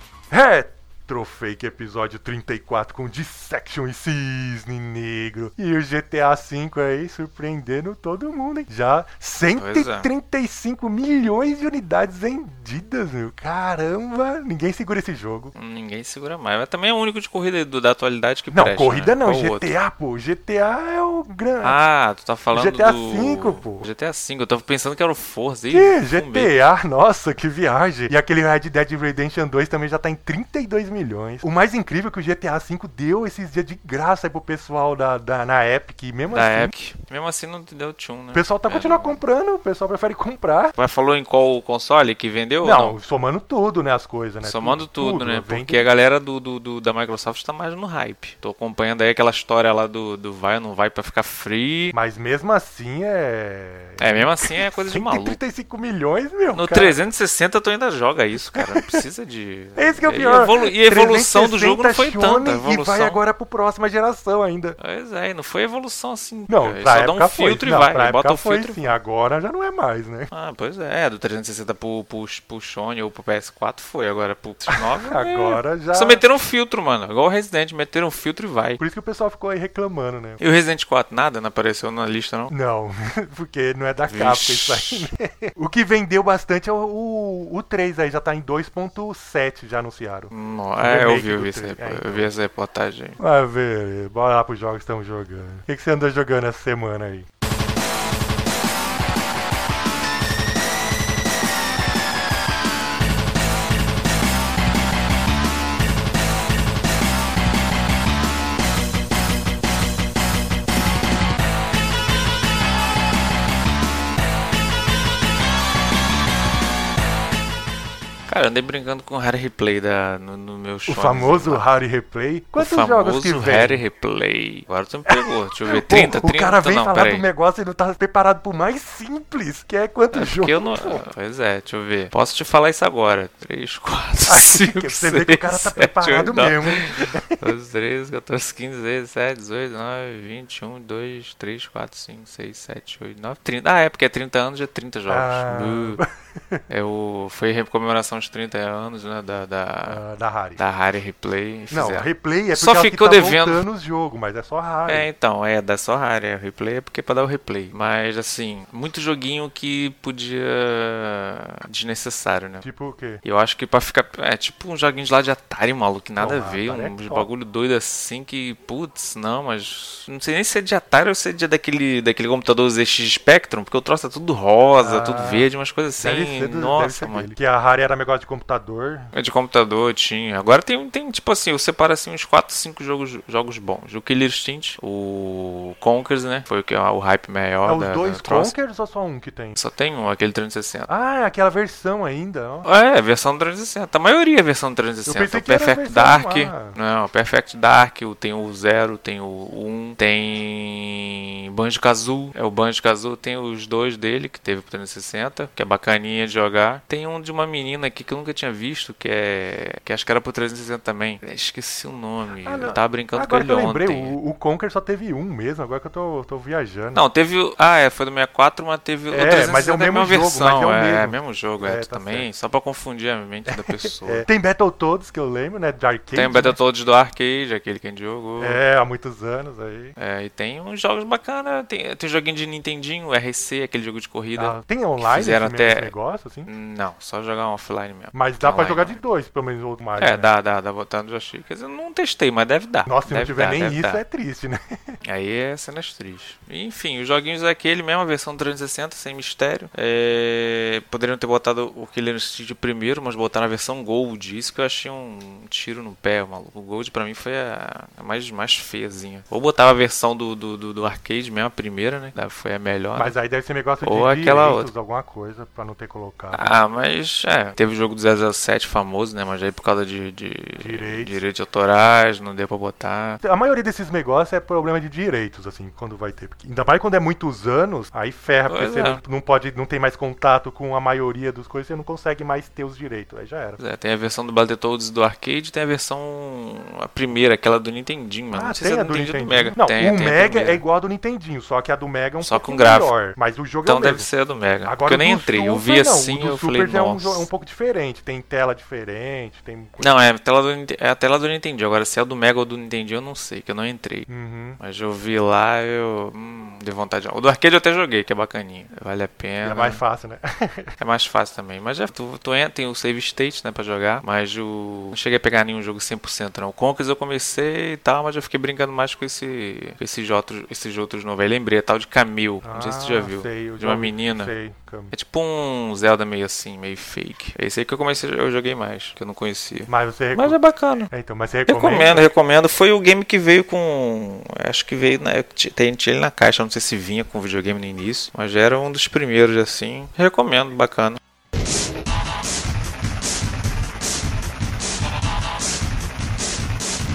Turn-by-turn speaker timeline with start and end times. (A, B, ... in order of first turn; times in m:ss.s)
0:00.3-0:15.5 A
0:09.6-0:10.1 B
0:15.6-0:19.7 B
0:18.5-0:21.8 A
0:21.6-0:26.5 B
0:22.5-0:23.9 A
0:25.7-0:36.7 A
0:36.3-0:39.2 B
0:38.3-0:40.8 A
0:40.8-0:43.0 B
0:42.6-0:45.9 A
0:44.4-0:52.0 B
0:51.9-0:57.0 A
0:54.0-0:55.4 B
0:56.5-1:03.2 B
0:58.3-0:59.0 A
0:59.8-1:04.8 A
1:04.8-1:08.9 B
1:06.5-1:10.3 A
1:10.3-1:18.8 B
1:14.7-1:16.2 A
1:18.8-1:20.4 A
1:20.4-1:22.5 B
1:22.5-1:32.3 A
1:24.1-1:25.1 B
1:30.3-1:33.2 B
1:33.2-1:37.3 A
1:58.3-2:01.7 B
2:00.9-2:03.8 A
2:02.6-2:07.2 B
2:05.1-2:11.0 A
2:10.1-2:26.0 B
2:14.3-2:17.5 A
2:25.1-2:26.6 A
2:26.7-2:30.0 B
2:29.9-2:30.6 A
2:30.6-2:33.6 B
2:31.7-2:35.1 A
2:34.9-2:42.6 B
2:42.6-2:43.2 A
2:43.2-2:57.3 B
2:46.2-2:47.3 A
2:54.8-2:59.1 A
2:59.1-3:08.5 B
3:07.6-3:09.6 A
3:09.6-3:10.9 B
3:10.9-3:12.7 A
3:12.6-3:34.2 B
3:15.1-3:16.8 A
3:32.4-3:37.0 A
3:36.9-3:44.3 B
3:39.1-3:42.3 A
3:43.5-3:46.6 A
3:46.2-3:48.6 B
3:48.4-3:50.0 A
3:50.0-3:55.9 B
3:54.4-3:56.5 A
3:56.4-3:59.0 B
3:58.1-4:00.3 A
4:00.0-4:04.0 B
4:02.9-4:04.6 A
4:05.0-4:23.1 B
4:23.0-4:26.5 A
4:23.8-4:24.7 B
4:26.3-4:33.2 B
4:30.6-4:31.2 A
4:33.2-4:43.6 A
4:38.5-4:39.0 B
4:43.6-4:50.6 B
4:48.3-4:54.1 A
4:52.2-4:52.9 B
4:53.7-4:57.3 B
4:54.6-4:59.9 A
4:59.8-5:04.1 B
5:04.1-5:04.6 A
5:04.6-5:09.8 B
5:09.4-5:10.7 A
5:10.8-5:24.3 B
5:22.4-5:24.9 A
5:24.9-5:30.9 B
5:29.7-5:32.1 A
5:31.5-5:41.0 B